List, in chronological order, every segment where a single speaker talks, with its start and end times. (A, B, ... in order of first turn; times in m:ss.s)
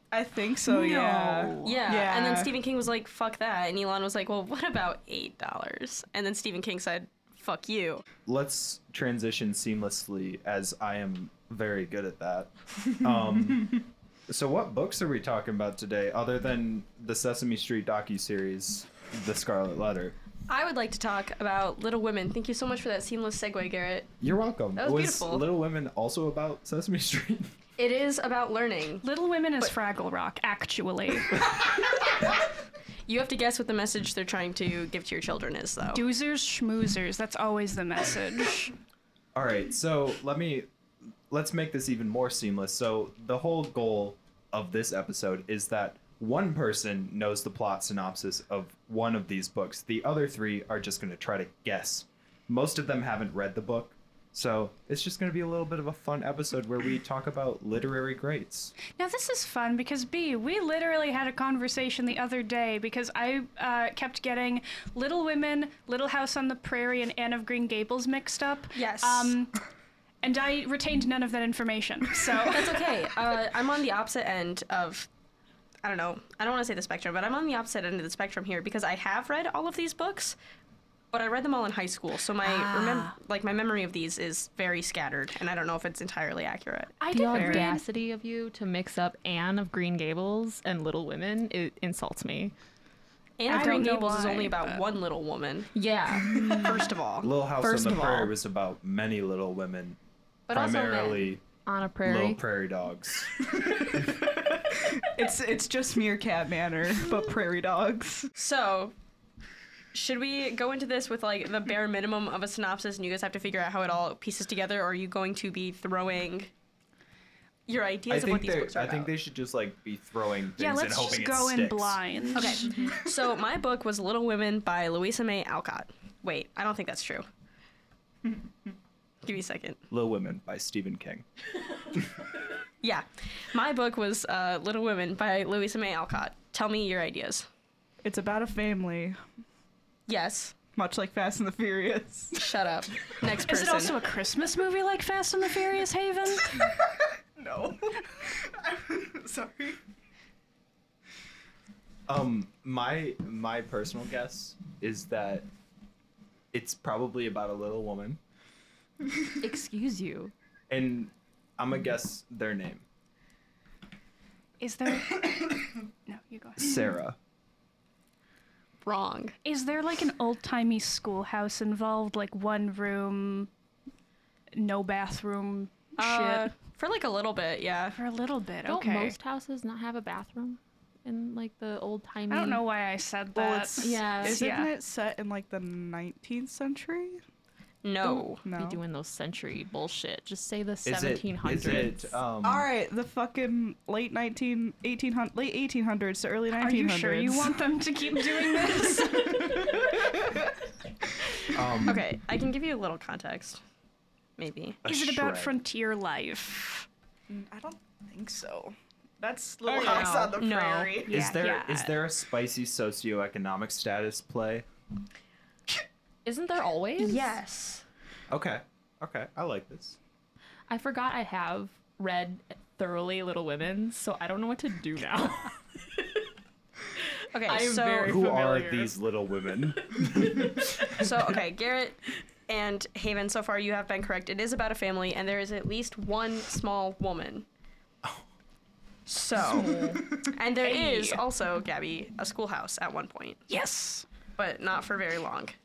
0:00.1-0:02.6 A
0:00.7-0:01.8 B
0:01.6-0:08.0 C
0:08.3-0:20.2 D
0:20.5-0:24.1 C
0:24.2-0:27.5 D
0:24.8-0:25.5 C
0:27.8-0:29.0 C
0:29.0-0:31.4 B
0:31.6-0:32.3 C
0:33.1-0:36.0 C
0:35.9-0:38.7 B
0:39.4-0:40.7 D
0:41.3-0:58.7 D
0:59.0-1:09.6 B
1:08.7-1:09.4 C
1:10.2-1:12.8 B
1:12.5-1:15.1 C
1:15.8-1:20.4 C
1:21.1-1:27.4 C
1:22.4-1:23.2 B
1:27.0-1:27.8 B
1:27.1-1:32.5 E
1:33.4-1:35.7 C
1:33.5-1:34.8 B
1:35.8-1:36.9 E
1:36.4-1:37.3 C
1:37.2-1:40.0 D
1:37.6-1:38.3 E
1:40.5-1:42.4 E
1:40.5-1:41.4 D
1:42.0-1:43.4 D
1:43.6-1:48.3 A
1:48.4-1:48.9 C
1:49.9-1:56.5 C
1:57.7-1:59.1 C
1:58.1-2:02.0 D
2:00.6-2:02.7 B
2:02.4-2:07.3 C
2:09.2-2:09.8 C
2:09.9-2:11.3 D
2:12.8-2:17.5 C
2:18.0-2:19.2 A
2:20.1-2:20.6 C
2:20.8-2:22.4 A
2:22.3-2:24.0 C
2:23.5-2:26.7 B
2:27.4-2:29.8 A
2:32.1-2:35.5 D
2:36.5-2:38.2 D
2:39.4-2:40.3 E
2:40.7-2:42.8 D
2:44.6-2:46.8 B
2:46.6-2:47.2 D
2:48.8-2:49.4 C
2:49.4-2:53.5 B
2:54.6-2:56.5 B
2:56.0-2:58.0 C
2:58.0-2:59.2 B
2:58.7-3:02.6 E
3:02.3-3:04.7 B
3:03.4-3:07.2 A
3:03.8-3:04.4 E
3:07.8-3:08.4 C
3:08.1-3:08.8 A
3:08.4-3:12.2 E
3:10.8-3:12.7 D
3:12.4-3:17.6 A
3:16.6-3:19.9 B
3:18.4-3:20.4 A
3:21.5-3:22.0 D
3:21.8-3:23.6 C
3:24.4-3:24.8 C
3:24.8-3:25.5 D
3:24.8-3:26.9 B
3:27.3-3:31.2 A
3:29.7-3:31.0 C
3:29.7-3:30.3 B
3:31.1-3:31.9 B
3:31.1-3:34.6 D
3:36.2-3:37.4 E
3:37.0-3:37.8 C
3:38.3-3:40.0 D
3:40.7-3:45.6 E
3:47.3-3:48.2 C
3:47.4-3:48.9 E
3:48.0-3:51.1 D
3:50.9-3:57.5 C
3:59.1-4:03.4 C
3:59.6-4:00.0 E
4:00.6-4:01.2 B
4:03.5-4:04.1 B
4:04.4-4:05.6 C